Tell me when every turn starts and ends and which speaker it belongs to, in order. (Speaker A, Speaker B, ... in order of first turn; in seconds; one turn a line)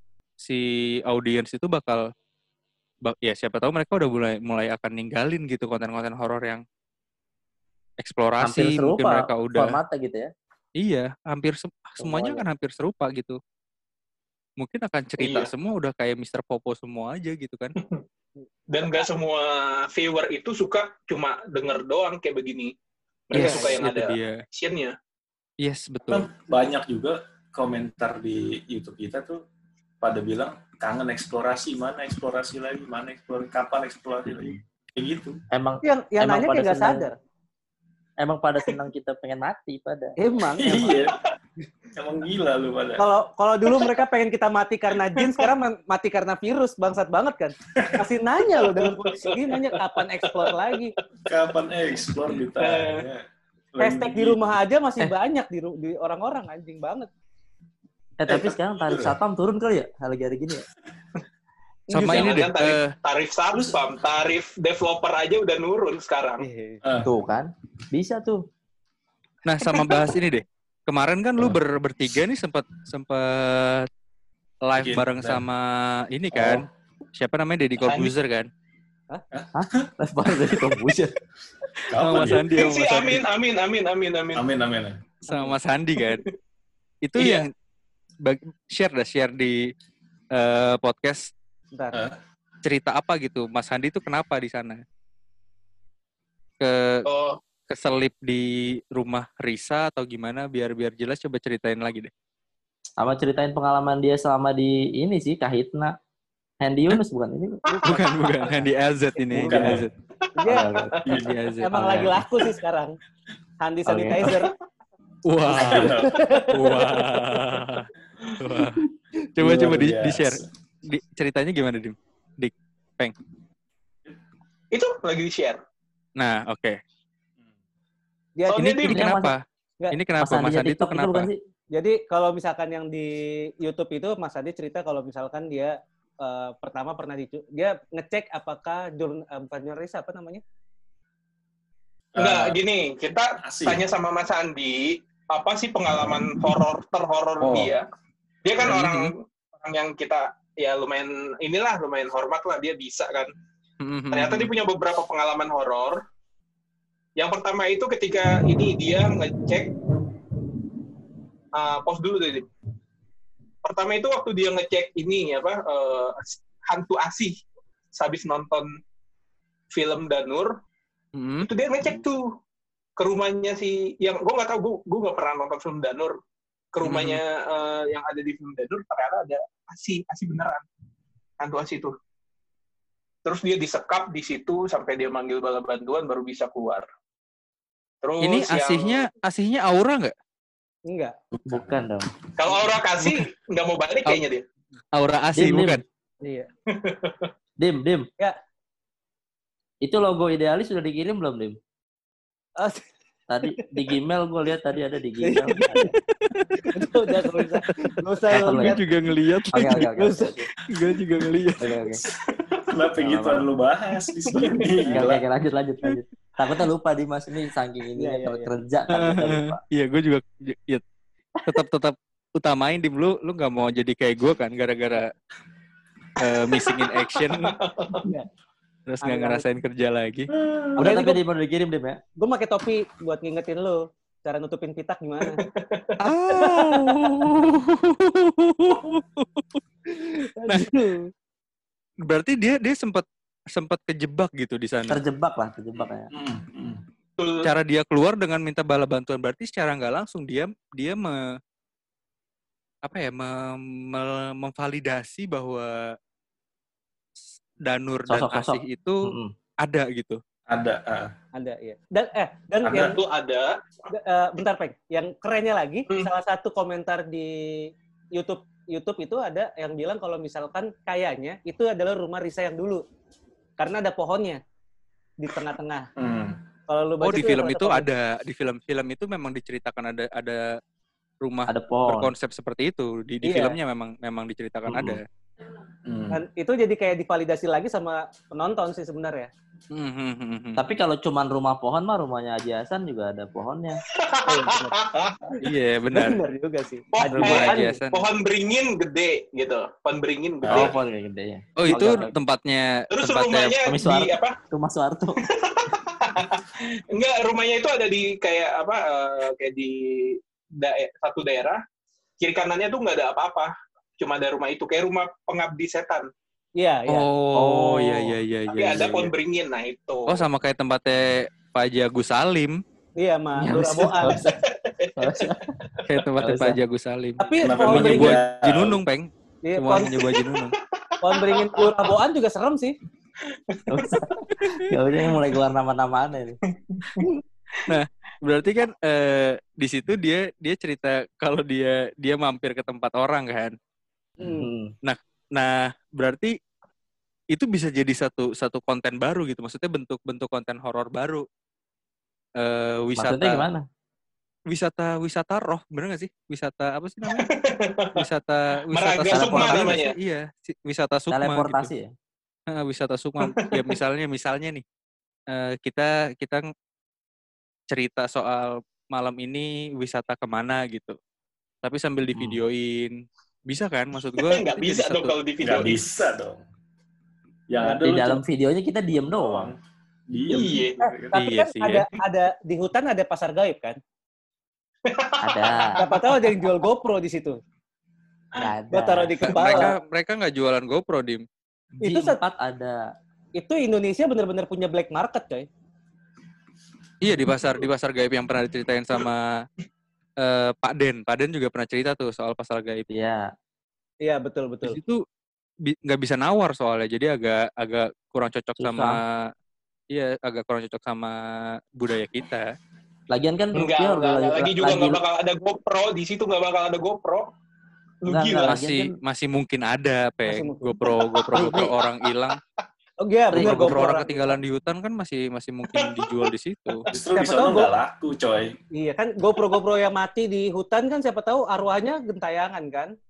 Speaker A: 0.4-2.0
Speaker A: 3.0-6.6
Speaker A: 8.0-9.8
Speaker B: 8.4-10.3
Speaker A: 10.8-13.4
Speaker B: 12.0-12.4
Speaker A: 14.6-17.7
Speaker C: 15.2-15.5
Speaker C: 17.8-18.0
Speaker C: 18.7-22.7
Speaker D: 18.8-19.0
Speaker C: 23.3-24.9
Speaker A: 23.3-24.4
Speaker D: 23.3-23.8
Speaker A: 25.6-26.3
Speaker E: 26.1-29.4
Speaker E: 30.0-35.4
Speaker B: 34.2-34.6
Speaker B: 35.5-37.1
Speaker D: 35.8-37.1
Speaker B: 38.2-40.1
Speaker D: 40.2-41.0
Speaker E: 40.6-41.2
Speaker E: 41.9-43.0
Speaker D: 43.0-50.9
Speaker C: 45.2-45.5
Speaker E: 47.7-48.0
Speaker C: 48.8-50.7
Speaker E: 51.3-53.2
Speaker E: 53.7-54.4
Speaker D: 53.8-57.1
Speaker B: 58.2-60.6
Speaker E: 58.3-59.1
Speaker D: 61.9-62.4
Speaker C: 61.9-66.5
Speaker A: 61.9-62.9
Speaker E: 63.5-63.8
Speaker D: 66.4-66.8
Speaker E: 66.8-67.2
Speaker B: 67.0-68.4
Speaker A: 69.4-73.9
Speaker A: 74.7-78.5
Speaker E: 74.8-75.4
Speaker B: 76.3-76.7
Speaker E: 77.8-78.1
Speaker E: 79.3-79.9
Speaker B: 79.5-81.1
Speaker E: 81.9-82.7
Speaker A: 81.9-83.2
Speaker C: 82.5-84.4
Speaker E: 84.3-85.1
Speaker D: 85.3-85.6
Speaker A: 85.3-86.2
Speaker C: 86.0-86.3
Speaker A: 87.0-87.5
Speaker C: 87.2-87.5
Speaker A: 88.2-89.6
Speaker A: 90.3-91.3
Speaker A: 92.6-94.8
Speaker A: 96.6-97.0
Speaker C: 97.0-97.4
Speaker A: 97.7-102.1
Speaker B: 103.0-105.9
Speaker B: 106.6-107.6
Speaker D: 107.7-108.7
Speaker A: 107.8-109.9
Speaker E: 109.3-109.9
Speaker C: 110.3-111.2
Speaker D: 110.4-110.9
Speaker E: 110.5-111.4
Speaker B: 110.5-110.9
Speaker A: 111.2-112.1
Speaker D: 111.6-113.0
Speaker B: 111.7-112.2
Speaker D: 113.6-114.5
Speaker B: 113.8-114.3
Speaker A: 115.2-117.9
Speaker E: 115.5-116.2
Speaker D: 115.9-117.0
Speaker A: 118.4-118.8
Speaker A: 119.4-123.1
Speaker E: 119.4-120.5
Speaker C: 124.7-125.6
Speaker A: 126.2-126.8
Speaker D: 128.3-128.7
Speaker C: 128.5-129.0
Speaker A: 128.5-131.3
Speaker B: 128.9-129.3
Speaker B: 130.2-131.4
Speaker D: 131.7-140.4
Speaker E: 142.2-142.6
Speaker C: 142.2-147.9
Speaker E: 143.4-143.8
Speaker E: 145.9-146.2
Speaker E: 147.4-147.8
Speaker C: 148.4-153.3
Speaker A: 148.6-149.1
Speaker A: 153.8-154.5
Speaker C: 154.1-156.0
Speaker C: 157.2-159.7
Speaker C: 161.5-162.5
Speaker C: 163.6-167.4
Speaker C: 167.9-168.7
Speaker C: 169.7-170.5
Speaker A: 171.1-171.5
Speaker C: 171.4-172.3
Speaker C: 173.0-176.2
Speaker C: 176.7-180.6
Speaker A: 176.8-177.2
Speaker C: 181.4-181.9
Speaker C: 183.2-186.9
Speaker C: 188.0-189.1
Speaker A: 188.2-190.1
Speaker D: 190.9-191.1
Speaker E: 191.3-191.7
Speaker B: 191.5-192.1
Speaker C: 192.4-194.4
Speaker A: 194.9-195.8
Speaker B: 195.3-195.8
Speaker D: 196.2-196.5
Speaker C: 196.7-197.3
Speaker B: 197.6-198.1
Speaker B: 199.8-201.6
Speaker D: 202.6-202.8
Speaker B: 203.3-205.9
Speaker D: 205.2-205.9
Speaker A: 206.1-206.8
Speaker D: 206.7-209.0
Speaker B: 208.3-208.8
Speaker A: 208.3-209.9
Speaker B: 209.5-210.5
Speaker D: 209.8-210.4
Speaker A: 210.7-211.7
Speaker B: 211.6-212.0
Speaker E: 211.6-215.2
Speaker B: 213.0-213.5
Speaker B: 214.9-219.6
Speaker D: 218.0-218.5
Speaker A: 218.9-220.8
Speaker A: 221.5-225.1
Speaker A: 226.2-227.6
Speaker C: 226.5-228.1
Speaker A: 228.9-230.3
Speaker D: 229.0-229.4
Speaker E: 230.3-230.8
Speaker B: 230.8-232.0
Speaker D: 230.8-231.2
Speaker D: 232.2-235.4
Speaker C: 235.3-236.0
Speaker A: 236.0-239.6
Speaker D: 236.3-237.2
Speaker D: 239.9-241.1
Speaker A: 240.5-240.7
Speaker A: 242.1-245.0
Speaker B: 244.9-246.1
Speaker E: 246.1-246.8
Speaker C: 247.2-247.5
Speaker A: 247.4-251.3
Speaker A: 252.8-256.0
Speaker A: 257.6-260.2
Speaker B: 258.1-259.3
Speaker E: 260.5-261.1
Speaker D: 261.3-263.0
Speaker E: 262.6-263.0
Speaker C: 262.8-263.5
Speaker D: 263.9-272.8
Speaker D: 273.6-274.4
Speaker D: 275.2-275.9
Speaker E: 276.0-276.4
Speaker D: 276.7-277.9
Speaker A: 277.0-280.6
Speaker A: 281.2-285.0
Speaker B: 281.5-282.1
Speaker D: 283.2-283.6
Speaker B: 284.7-285.0
Speaker E: 285.9-286.2
Speaker D: 286.1-289.3
Speaker A: 289.7-290.6
Speaker B: 290.6-293.8
Speaker C: 293.9-295.2
Speaker D: 294.2-295.4
Speaker A: 295.4-296.2
Speaker D: 295.9-297.7
Speaker C: 296.9-300.7
Speaker B: 297.0-297.7
Speaker A: 297.2-298.0
Speaker E: 300.4-300.7
Speaker B: 300.5-302.1
Speaker A: 301.6-303.6
Speaker C: 302.9-304.3
Speaker B: 303.6-305.2
Speaker C: 305.2-311.6
Speaker C: 312.2-316.1
Speaker D: 316.6-317.1
Speaker A: 316.9-318.9
Speaker B: 317.4-318.0
Speaker C: 318.5-320.2
Speaker A: 320.1-322.6
Speaker D: 323.0-324.2
Speaker B: 323.4-325.5
Speaker C: 324.4-325.3
Speaker A: 325.8-330.6
Speaker B: 326.2-326.6
Speaker D: 327.2-328.2
Speaker E: 327.4-328.8
Speaker D: 329.4-330.0
Speaker C: 330.0-331.7
Speaker D: 331.0-332.8
Speaker C: 333.2-334.2
Speaker B: 333.7-336.4
Speaker A: 334.4-334.7
Speaker C: 336.5-337.8
Speaker A: 337.6-343.6
Speaker B: 344.2-344.7
Speaker A: 344.8-346.3
Speaker A: 347.3-351.2
Speaker A: 352.4-353.4
Speaker B: 353.0-353.6
Speaker A: 354.5-357.2
Speaker C: 357.0-358.1
Speaker A: 358.0-361.7
Speaker C: 358.7-360.0
Speaker B: 359.1-359.8
Speaker B: 361.1-361.9
Speaker A: 362.5-364.6
Speaker C: 363.2-363.6
Speaker A: 365.3-366.5
Speaker A: 367.7-371.0
Speaker A: 371.6-375.2
Speaker C: 374.2-375.8
Speaker E: 375.4-376.4
Speaker E: 377.5-378.2
Speaker B: 377.6-379.5
Speaker E: 379.1-379.6
Speaker E: 380.1-381.1
Speaker C: 380.3-380.9
Speaker D: 381.1-383.8
Speaker A: 381.1-381.9
Speaker C: 384.9-386.5
Speaker B: 385.2-385.8
Speaker D: 385.8-387.4
Speaker B: 388.4-389.2
Speaker D: 388.7-389.7
Speaker A: 389.3-391.2
Speaker B: 391.8-392.8
Speaker D: 391.8-392.2
Speaker D: 393.4-395.5
Speaker A: 397.0-399.5
Speaker A: 400.2-402.9
Speaker B: 402.9-403.3
Speaker D: 404.0-404.8
Speaker A: 404.6-405.0
Speaker A: 405.6-409.3
Speaker B: 408.6-409.0
Speaker A: 409.9-412.5
Speaker B: 413.1-415.0
Speaker C: 413.5-417.3
Speaker C: 418.0-418.6
Speaker B: 418.1-418.9
Speaker A: 418.5-422.4
Speaker D: 420.2-421.0
Speaker C: 420.9-422.4
Speaker B: 421.3-421.7
Speaker D: 423.0-424.4
Speaker B: 423.3-423.9
Speaker A: 423.3-426.9
Speaker C: 425.8-426.2
Speaker E: 426.9-428.6
Speaker D: 427.1-427.7
Speaker D: 428.8-432.9